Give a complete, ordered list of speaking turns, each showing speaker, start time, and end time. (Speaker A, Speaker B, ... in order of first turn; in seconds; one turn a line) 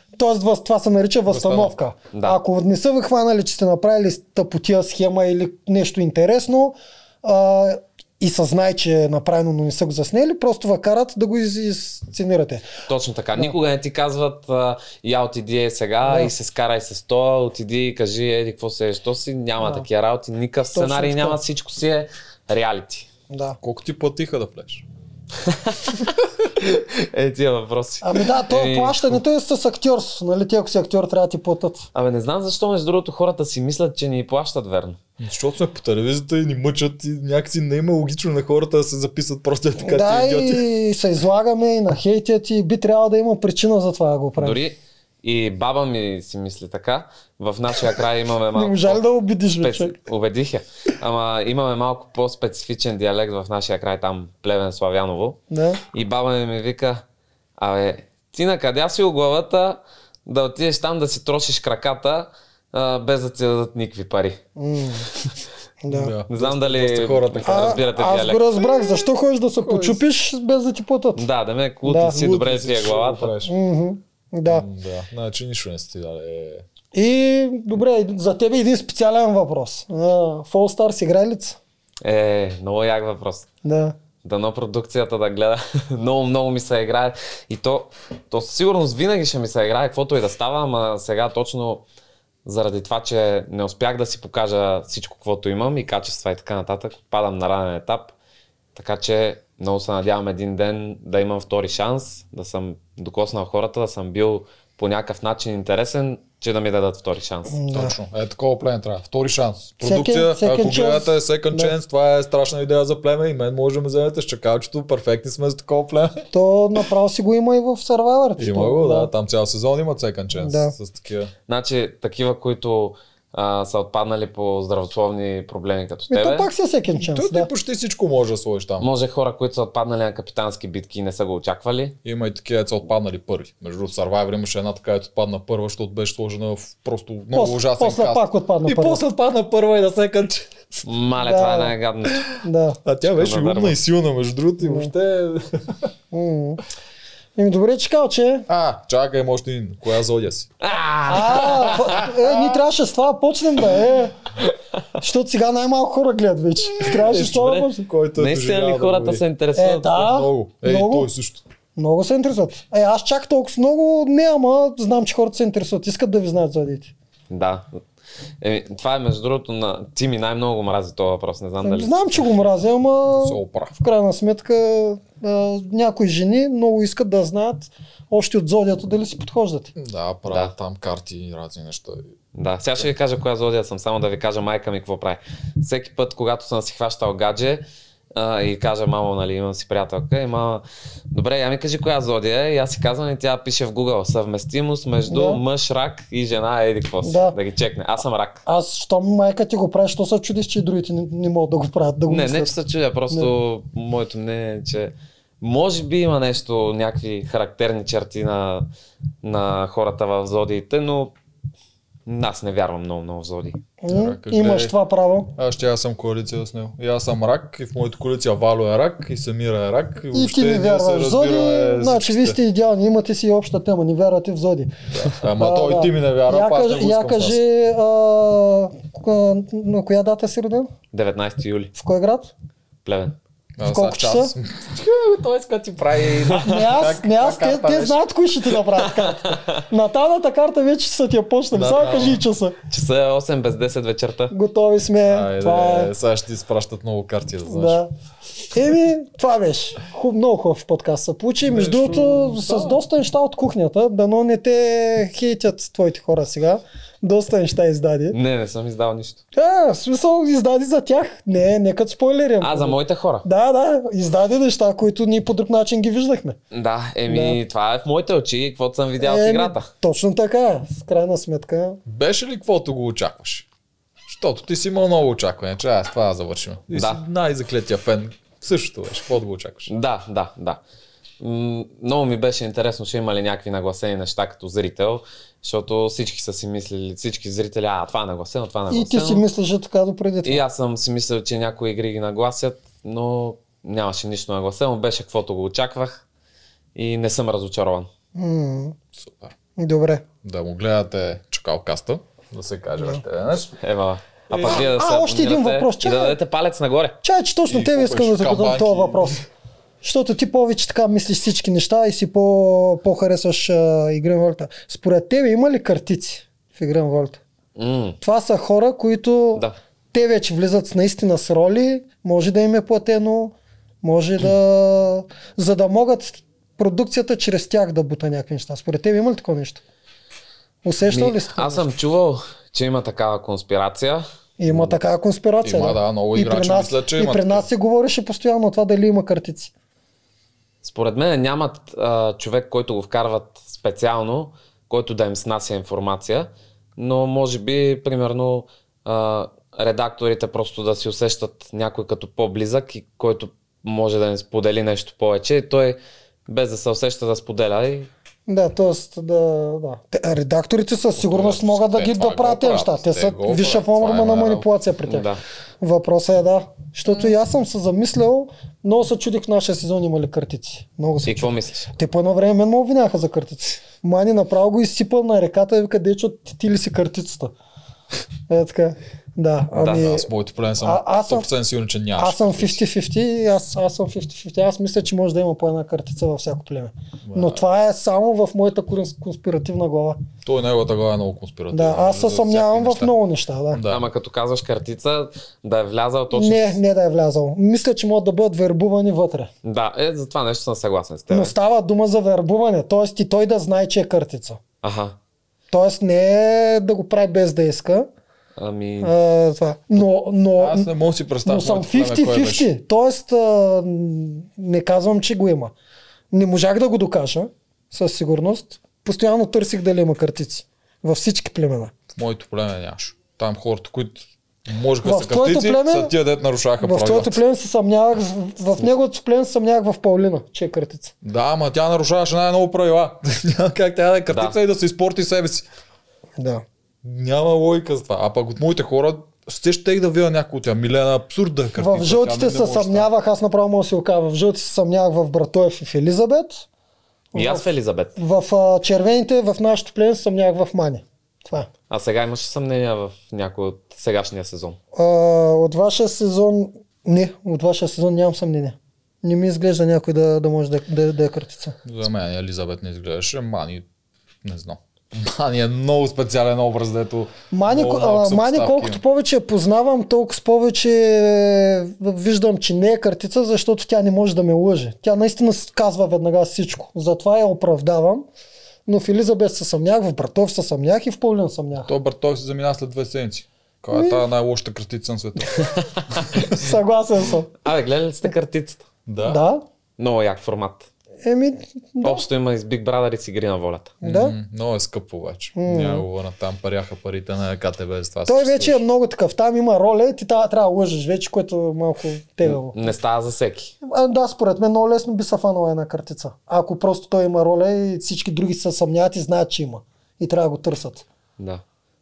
Speaker A: 0.2-12.7
Speaker B: 1.3-1.7
Speaker C: 2.1-2.4
Speaker C: 12.9-23.1
Speaker A: 16.0-16.3
Speaker A: 19.6-19.9
Speaker A: 20.7-21.4
Speaker A: 23.3-23.6
Speaker B: 23.6-24.8
Speaker C: 25.4-29.2
Speaker A: 28.0-31.9
Speaker C: 31.9-35.0
Speaker B: 35.2-40.7
Speaker A: 39.8-44.6
Speaker C: 44.4-49.0
Speaker A: 48.5-49.9
Speaker C: 49.6-55.4
Speaker A: 55.5-55.8
Speaker C: 55.9-57.0
Speaker C: 57.6-64.4
Speaker A: 64.6-65.1
Speaker A: 65.8-66.1
Speaker B: 65.9-67.8
Speaker C: 66.3-68.6
Speaker A: 67.5-71.2
Speaker B: 69.6-70.0
Speaker C: 71.2-73.3
Speaker A: 71.8-72.3
Speaker B: 72.0-73.5
Speaker A: 73.5-74.7
Speaker B: 74.5-76.7
Speaker A: 76.9-81.6
Speaker C: 82.0-83.5
Speaker A: 83.6-84.0
Speaker C: 84.2-91.8
Speaker C: 92.5-98.1
Speaker C: 98.8-107.6
Speaker A: 107.5-108.0
Speaker B: 107.7-116.3
Speaker A: 109.8-111.7
Speaker A: 116.3-119.1
Speaker B: 118.4-121.3
Speaker A: 120.3-120.8
Speaker C: 121.5-126.5
Speaker A: 126.1-127.5
Speaker B: 126.9-128.9
Speaker C: 128.8-132.0
Speaker B: 132.0-140.8
Speaker A: 137.3-139.0
Speaker C: 140.9-142.3
Speaker A: 141.2-141.7
Speaker A: 142.4-142.8
Speaker B: 142.8-145.9
Speaker C: 143.2-143.8
Speaker A: 144.6-144.9
Speaker A: 146.1-146.6
Speaker A: 147.4-148.5
Speaker B: 148.5-150.5
Speaker C: 150.6-152.1
Speaker A: 151.1-154.2
Speaker A: 155.0-157.8
Speaker B: 156.8-159.2
Speaker C: 158.2-160.0
Speaker A: 159.6-161.1
Speaker B: 159.9-161.4
Speaker A: 161.8-166.9
Speaker C: 167.3-167.7
Speaker C: 168.4-172.5
Speaker A: 171.6-179.7
Speaker B: 173.1-173.8
Speaker B: 179.8-182.1
Speaker C: 182.3-198.4
Speaker A: 195.1-195.4
Speaker A: 197.0-197.4
Speaker A: 198.5-202.5
Speaker C: 202.1-208.7
Speaker C: 209.2-211.1
Speaker C: 212.1-213.6
Speaker A: 213.8-215.3
Speaker B: 213.9-214.8
Speaker B: 215.4-222.4
Speaker A: 220.1-224.7
Speaker B: 224.9-227.4
Speaker A: 225.2-230.7
Speaker C: 230.9-231.7
Speaker A: 231.8-232.3
Speaker C: 232.9-233.2
Speaker B: 233.6-238.0
Speaker A: 233.7-234.3
Speaker C: 236.1-236.4
Speaker A: 236.4-242.6
Speaker C: 238.8-239.6
Speaker B: 241.5-242.2
Speaker C: 242.7-244.3
Speaker A: 244.3-245.9
Speaker B: 245.1-247.8
Speaker A: 247.5-247.9
Speaker A: 248.5-258.2
Speaker B: 251.4-252.8
Speaker C: 258.1-259.2
Speaker A: 259.3-266.4
Speaker C: 262.4-263.3
Speaker C: 266.5-269.7
Speaker A: 267.1-267.4
Speaker A: 269.0-271.8
Speaker B: 271.9-273.5
Speaker B: 274.1-279.7
Speaker C: 276.7-277.0
Speaker C: 279.7-280.6
Speaker C: 281.2-289.2
Speaker A: 288.7-290.4
Speaker C: 290.2-296.0
Speaker C: 296.8-297.9
Speaker A: 298.1-298.8
Speaker B: 299.0-299.3
Speaker A: 299.6-300.1
Speaker B: 300.2-303.6
Speaker C: 303.6-307.0
Speaker B: 304.3-304.6
Speaker A: 304.4-306.2
Speaker A: 307.0-309.2
Speaker B: 307.5-309.2
Speaker A: 309.8-317.2
Speaker C: 317.6-318.0
Speaker A: 318.0-329.6
Speaker A: 330.6-331.6
Speaker C: 330.8-334.0
Speaker A: 334.4-339.5
Speaker B: 335.4-337.5
Speaker C: 340.6-357.9
Speaker A: 358.3-365.1
Speaker B: 360.9-364.5
Speaker C: 364.9-365.2
Speaker A: 365.6-377.3
Speaker C: 371.1-371.7
Speaker A: 378.3-380.1
Speaker C: 379.6-379.9
Speaker B: 379.7-382.6
Speaker A: 380.6-381.3
Speaker A: 382.0-390.0
Speaker B: 387.1-387.4
Speaker B: 390.2-392.9
Speaker A: 391.5-393.6
Speaker B: 393.5-393.9
Speaker C: 393.7-396.6
Speaker A: 396.1-399.3
Speaker C: 399.4-401.3
Speaker A: 401.1-404.4
Speaker C: 404.6-405.0
Speaker A: 405.5-407.9
Speaker C: 408.4-408.9
Speaker A: 408.8-410.7
Speaker B: 410.4-412.5
Speaker A: 411.2-415.5
Speaker A: 416.1-421.7
Speaker B: 422.0-427.2
Speaker A: 424.8-425.9
Speaker A: 426.6-430.9
Speaker B: 431.0-435.4
Speaker C: 434.1-434.4
Speaker A: 436.2-436.4
Speaker B: 436.8-442.9
Speaker A: 441.6-446.4
Speaker A: 447.1-447.5
Speaker C: 447.1-448.0
Speaker A: 448.0-451.5
Speaker C: 451.7-454.6
Speaker A: 454.8-461.6
Speaker B: 461.6-463.7
Speaker B: 464.2-468.8
Speaker A: 467.3-478.1
Speaker A: 478.7-481.7
Speaker B: 481.6-485.5
Speaker A: 483.7-484.0
Speaker B: 486.1-486.5
Speaker A: 486.3-487.3
Speaker C: 487.4-488.6
Speaker B: 488.9-489.2
Speaker A: 489.1-489.4
Speaker C: 489.8-490.7
Speaker A: 491.0-492.1
Speaker C: 491.8-493.8
Speaker A: 493.8-494.1
Speaker B: 493.8-498.6
Speaker A: 495.4-495.9
Speaker A: 498.1-502.7
Speaker C: 502.2-503.5
Speaker A: 503.6-510.9